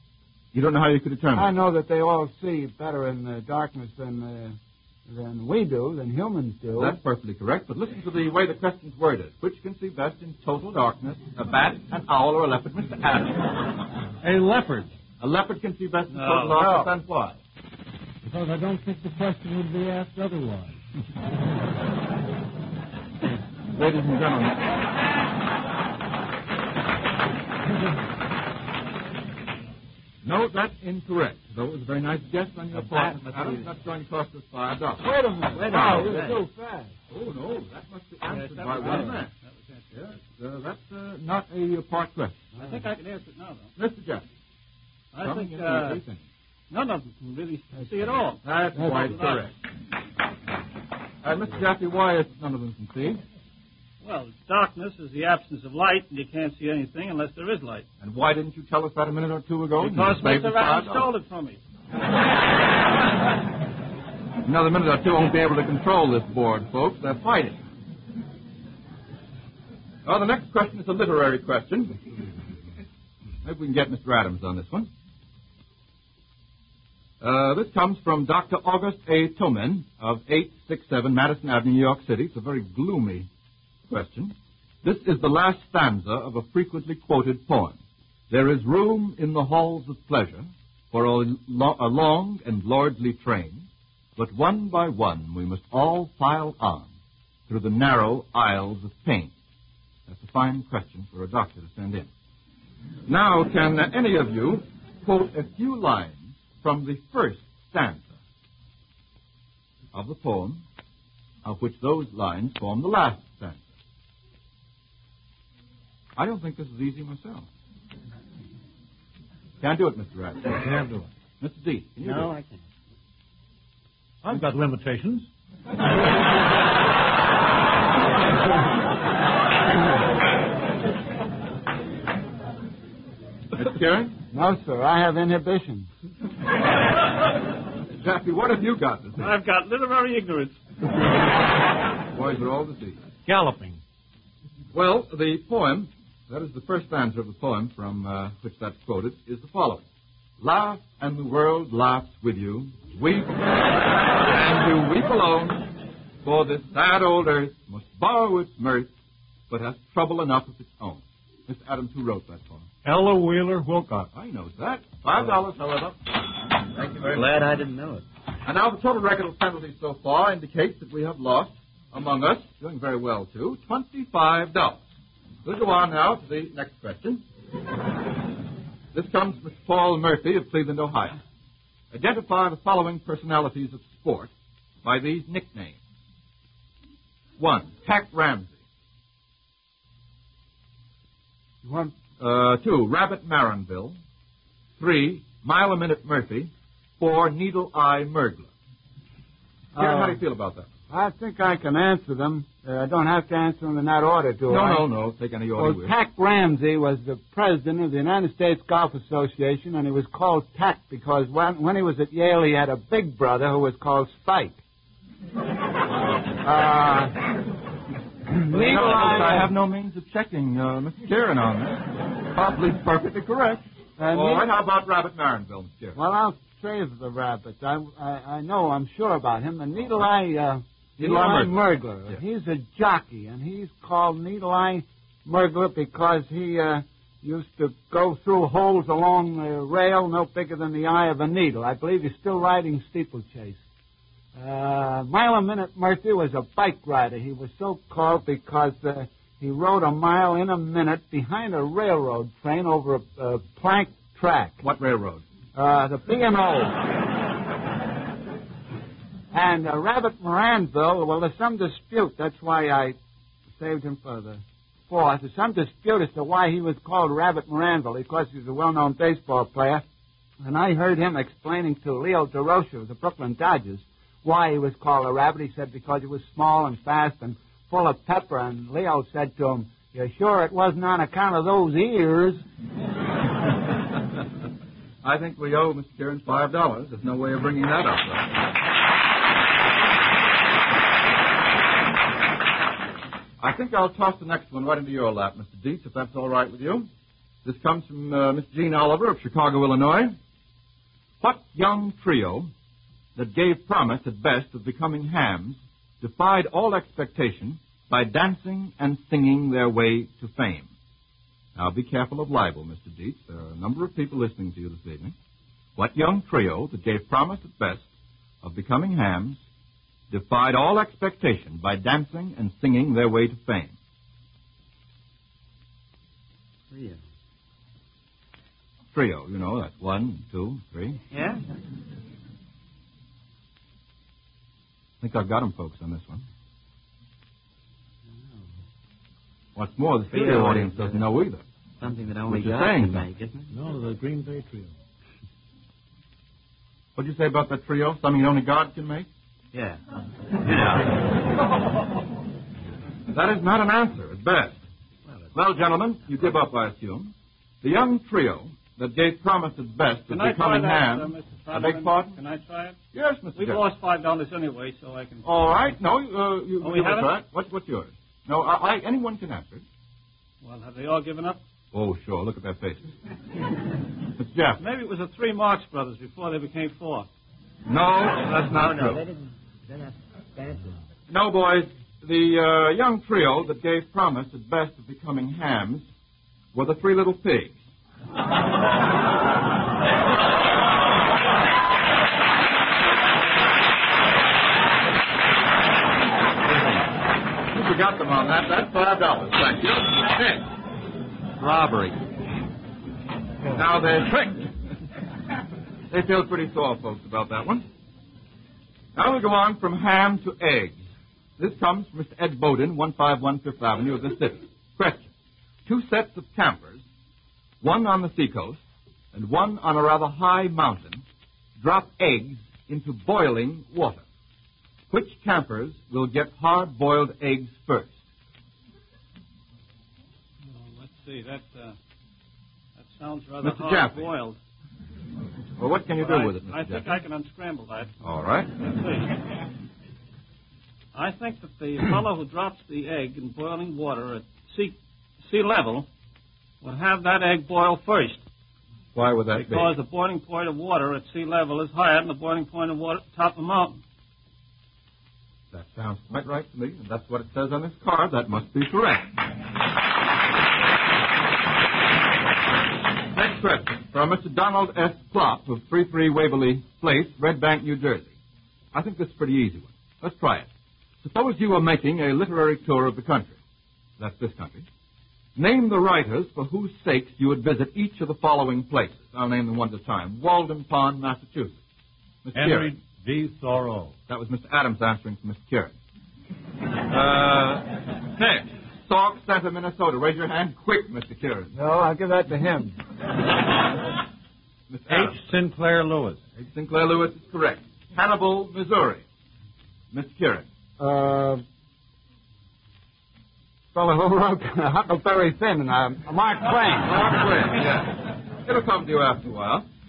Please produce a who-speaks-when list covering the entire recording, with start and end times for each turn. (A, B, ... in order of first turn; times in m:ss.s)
0:00.5-0:01.5 A
0:01.4-0:07.0 B
0:06.8-0:13.8 A
0:14.2-0:14.9 C
0:15.2-0:17.4 A
0:16.1-0:16.6 D
0:18.2-0:20.8 C
0:23.7-0:24.7 A
0:30.2-0:36.2 A
0:32.7-0:33.7 E
0:35.0-0:36.9 B
0:35.6-0:36.4 E
0:37.1-0:39.3 A
0:38.3-0:39.8 D
0:39.9-0:42.5 A
0:42.6-0:43.7 D
0:43.8-0:44.2 A
0:45.1-0:46.0 D
0:45.2-0:46.2 A
0:46.7-0:49.4 D
0:48.4-0:49.5 A
0:51.2-0:53.2 A
0:54.0-0:57.9 D
0:58.0-1:01.1 A
0:59.8-1:01.6 D
1:04.4-1:07.6 A
1:10.0-1:12.0 A
1:13.4-1:14.9 A
1:17.2-1:23.3 A
1:23.9-1:27.8 A
1:28.3-1:36.9 A
1:37.5-1:39.3 A
1:40.1-1:42.1 A
1:43.1-1:48.2 A
1:49.9-1:50.6 A
1:51.4-1:53.6 A
1:56.2-1:57.5 A
1:59.6-2:00.6 A
2:00.5-2:01.1 C
2:01.4-2:02.3 A
2:02.0-2:02.6 E
2:04.2-2:05.3 C
2:13.5-2:14.2 A
2:14.3-2:15.9 B
2:18.0-2:19.4 A
2:19.2-2:20.6 D
2:22.0-2:23.0 A
2:23.2-2:23.8 C
2:24.7-2:29.8 A
2:30.4-2:38.9 A
2:39.5-2:42.7 A
2:42.8-2:44.1 C
2:44.1-2:47.3 A
2:47.0-2:48.0 E
2:48.4-2:54.8 A
2:55.4-2:57.2 A
2:58.9-3:01.2 A
3:01.9-3:04.3 A
3:04.8-3:05.8 A
3:07.4-3:08.5 A
3:11.6-3:11.9 B
3:12.2-3:14.0 A
3:14.8-3:18.5 A
3:19.7-3:20.2 B
3:19.8-3:20.7 A
3:20.9-3:24.8 B
3:24.5-3:25.9 A
3:25.6-3:34.6 B
3:36.4-3:37.2 B
3:38.3-3:39.5 B
3:38.5-3:46.0 A
3:44.0-3:44.5 B
3:46.0-4:03.6 B
3:51.0-3:52.2 A
4:04.4-4:14.6 B
4:14.6-4:15.2 A
4:15.6-4:16.9 B
4:19.3-4:23.0 B
4:23.6-4:29.8 B
4:30.4-4:42.4 B
4:45.0-4:48.4 A
4:53.4-4:56.9 A
4:57.4-5:00.2 A
5:01.2-5:02.5 A
5:03.2-5:10.7 A
5:11.6-5:15.2 A
5:15.8-5:17.9 A
5:18.4-5:19.4 A
5:20.1-5:23.8 A
5:26.7-5:27.0 E
5:28.9-5:31.0 A
5:31.1-5:31.4 E
5:35.0-5:36.2 A
5:38.1-5:38.5 E
5:39.6-5:41.4 A
5:40.1-5:41.0 E
5:41.8-5:43.5 E
5:42.3-5:43.1 A
5:43.5-5:44.7 C
5:47.0-5:49.1 A
5:49.5-5:49.8 E
5:50.4-5:51.0 E
5:53.1-5:54.6 A
5:55.3-6:02.2 A
6:00.1-6:02.8 D
6:02.9-6:03.6 A
6:03.4-6:05.3 D
6:05.2-6:09.6 A
6:06.6-6:07.1 D
6:10.4-6:11.4 D
6:11.7-6:12.9 A
6:14.2-6:14.6 A
6:14.6-6:17.1 D
6:17.7-6:19.1 A
6:18.5-6:20.8 E
6:21.1-6:25.9 A
6:26.5-6:27.6 A
6:36.5-6:36.8 E
6:37.4-6:40.5 A
6:41.4-6:42.0 A
6:43.5-6:44.6 A
6:45.9-6:47.6 A
6:49.0-6:50.8 A
6:51.4-6:55.1 A
6:55.7-6:56.8 A
6:57.6-6:58.6 A
6:59.1-7:01.0 A
7:01.6-7:04.0 A
7:04.9-7:08.0 A
7:10.5-7:11.8 D
7:12.8-7:14.4 D
7:13.4-7:14.1 A
7:15.6-7:17.0 A
7:16.0-7:17.9 D
7:18.0-7:18.6 A
7:18.6-7:19.2 D
7:20.9-7:25.9 D
7:26.6-7:28.2 D
7:28.9-7:29.7 A
7:29.3-7:33.8 D
7:35.5-7:39.2 A
7:43.1-7:48.1 A
7:48.7-7:50.5 A
7:51.0-7:53.4 A
7:54.0-7:54.7 A
7:55.4-8:01.6 A
8:02.2-8:02.7 A
8:02.3-8:04.0 C
8:04.1-8:05.8 A
8:06.9-8:11.5 A
8:11.5-8:12.8 B
8:14.7-8:15.4 A
8:14.9-8:16.2 C
8:16.4-8:19.0 A
8:19.9-8:20.5 A
8:20.8-8:21.4 B
8:23.7-8:27.0 B
8:26.8-8:29.7 A